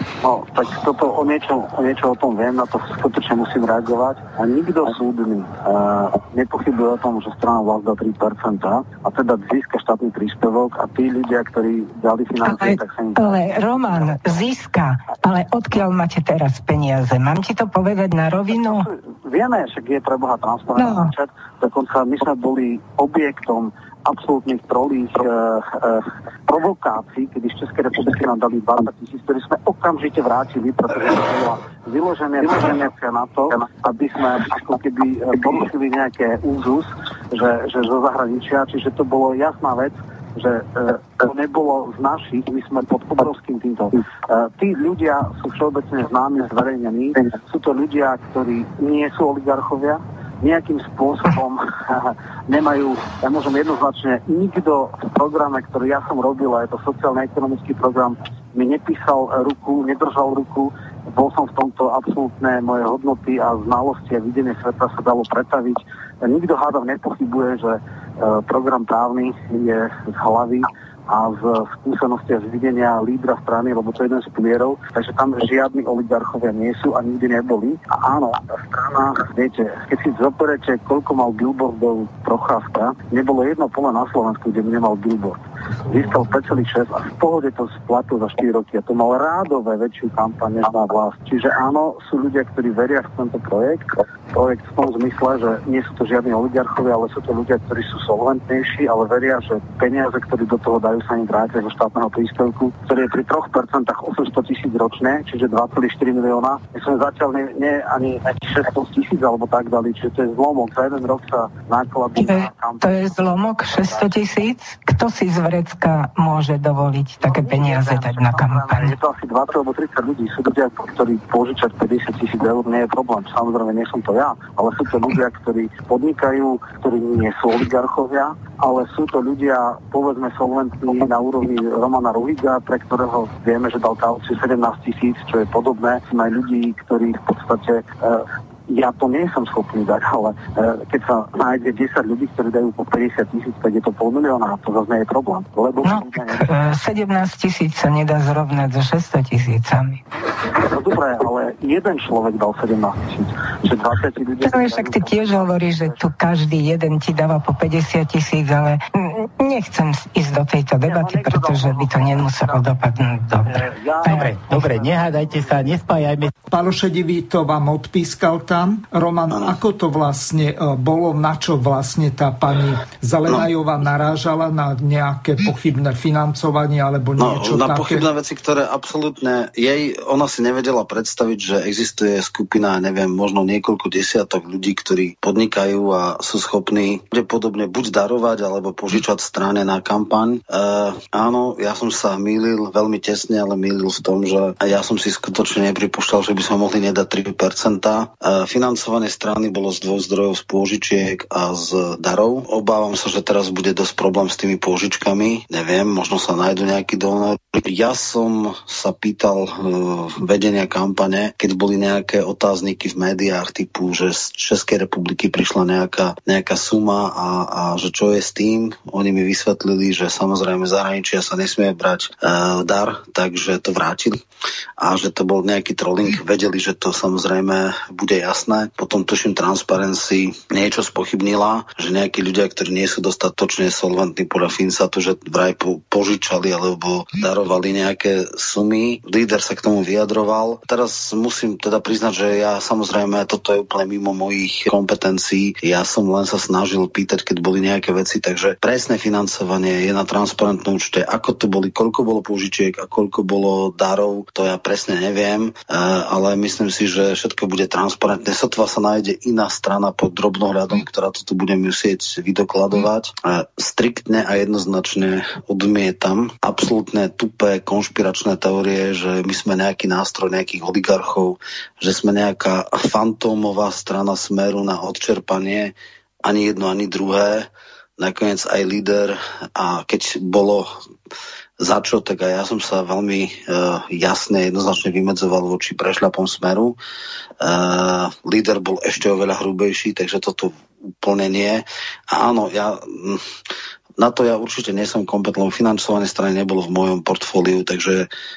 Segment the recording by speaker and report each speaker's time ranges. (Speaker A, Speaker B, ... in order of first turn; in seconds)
Speaker A: 0.2-13.5, 18.5-114.2, 117.2-146.7, 150.7-156.1, 160.8-162.8, 163.4-165.4
Speaker B: 12.4-18.9, 20.8-21.1, 112.2-119.0, 145.8-150.0, 154.4-163.5, 164.0-164.3
Speaker C: 164.1-166.3
Speaker D: 166.5-178.1
Speaker E: 169.3-169.6, 177.2-224.2, 224.8-280.7, 281.6-286.8, 287.4-293.2, 294.0-298.1